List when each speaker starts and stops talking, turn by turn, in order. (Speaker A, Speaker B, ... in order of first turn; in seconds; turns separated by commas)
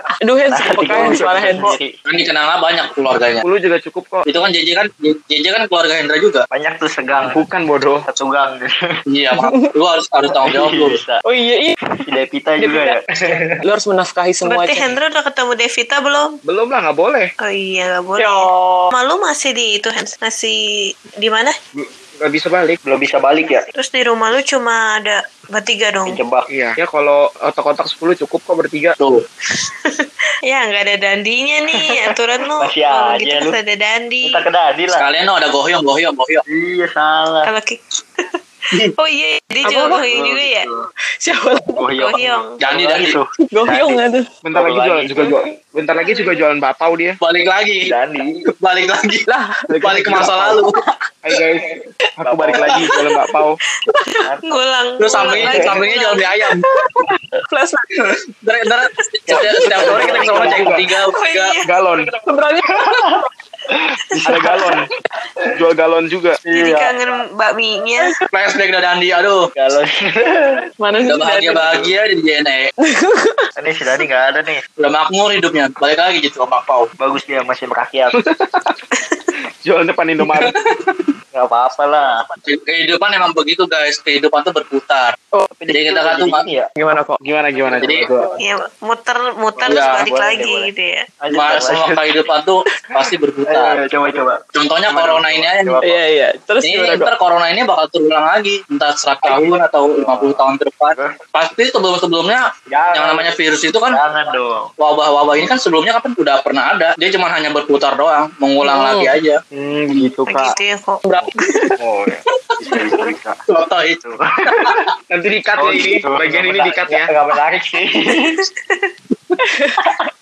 Speaker A: 0.2-1.8, Speaker B: 0.5-1.9, Speaker C: 0.8-1.6, Speaker D: 2.0-3.4, Speaker C: 3.4-4.3, Speaker D: 4.3-6.5, Speaker B: 6.5-7.4, Speaker C: 7.2-8.1, Speaker B: 8.1-8.7, Speaker D: 9.1-11.0, Speaker A: 9.3-9.7, Speaker B: 10.4-11.2, Speaker A: 11.2-11.7, Speaker B: 12.1-13.1, Speaker A: 12.6-13.0, Speaker A: 13.6-15.0, Speaker E: 14.4-16.3, Speaker C: 16.4-17.3, Speaker E: 17.4-20.6, Speaker E: 21.2-21.5, Speaker C: 21.7-22.8, Speaker B: 22.8-23.6, Speaker E: 23.7-26.2, Speaker B: 26.1-26.5, Speaker C: 26.5-28.9, Speaker E: 29.8-34.3, Speaker B: 32.6-33.6, Speaker B: 34.2-35.1, Speaker D: 34.9-36.4, Speaker B: 36.5-37.5, Speaker E: 37.4-37.8, Speaker E: 39.0-40.7, Speaker A: 39.6-40.0, Speaker B: 40.0-40.9, Speaker A: 41.2-42.0, Speaker B: 41.8-44.0, Speaker E: 42.0-42.5, Speaker D: 42.6-43.1, Speaker A: 43.4-44.2, Speaker C: 44.4-47.2, Speaker B: 44.5-45.3, Speaker D: 47.2-47.9, Speaker B: 47.9-48.5, Speaker D: 48.5-49.2, Speaker A: 49.3-49.8, Speaker C: 49.8-50.6, Speaker D: 49.8-50.8, Speaker C: 51.2-51.6, Speaker C: 52.2-53.6, Speaker B: 52.2-52.9, Speaker E: 54.1-56.3, Speaker D: 55.0-56.7, Speaker B: 55.4-55.6, Speaker A: 57.5-57.9, Speaker D: 58.0-61.6, Speaker B: 59.3-60.8, Speaker C: 59.8-60.8, Speaker E: 60.3-61.7, Speaker C: 61.6-62.1, Speaker A: 62.2-62.7, Speaker B: 62.7-63.2, Speaker B: 64.2-64.8, Speaker C: 64.2-64.9, Speaker C: 65.6-66.4, Speaker E: 66.5-68.2, Speaker B: 66.5-66.9, Speaker D: 68.3-69.4, Speaker B: 69.6-70.6, Speaker A: 70.8-71.8, Speaker D: 71.1-72.7, Speaker A: 72.8-73.4, Speaker B: 73.6-74.6, Speaker D: 74.8-76.9, Speaker B: 77.0-78.2, Speaker C: 78.1-78.7, Speaker C: 79.6-80.5, Speaker B: 81.3-82.2, Speaker D: 82.4-85.2, Speaker B: 85.5-86.7, Speaker D: 85.7-86.5, Speaker A: 86.8-87.2, Speaker C: 87.2-88.3, Speaker B: 87.7-88.1, Speaker D: 87.8-88.1, Speaker E: 88.4-91.0, Speaker B: 89.6-90.7, Speaker D: 89.7-90.1, Speaker B: 91.2-92.1, Speaker D: 91.3-93.8, Speaker B: 93.5-96.0, Speaker D: 94.5-95.8, Speaker A: 95.8-97.1, Speaker D: 96.6-104.0, Speaker B: 99.2-100.4, Speaker B: 102.7-103.3, Speaker B: 103.9-104.7, Speaker D: 104.8-109.4, Speaker A: 108.6-109.2, Speaker C: 109.5-110.5, Speaker E: 110.3-111.6, Speaker A: 111.0-111.3, Speaker C: 111.8-112.2, Speaker B: 112.6-113.4, Speaker D: 113.5-114.8, Speaker B: 114.0-114.8, Speaker C: 115.1-117.1, Speaker B: 115.6-118.3, Speaker A: 119.4-119.8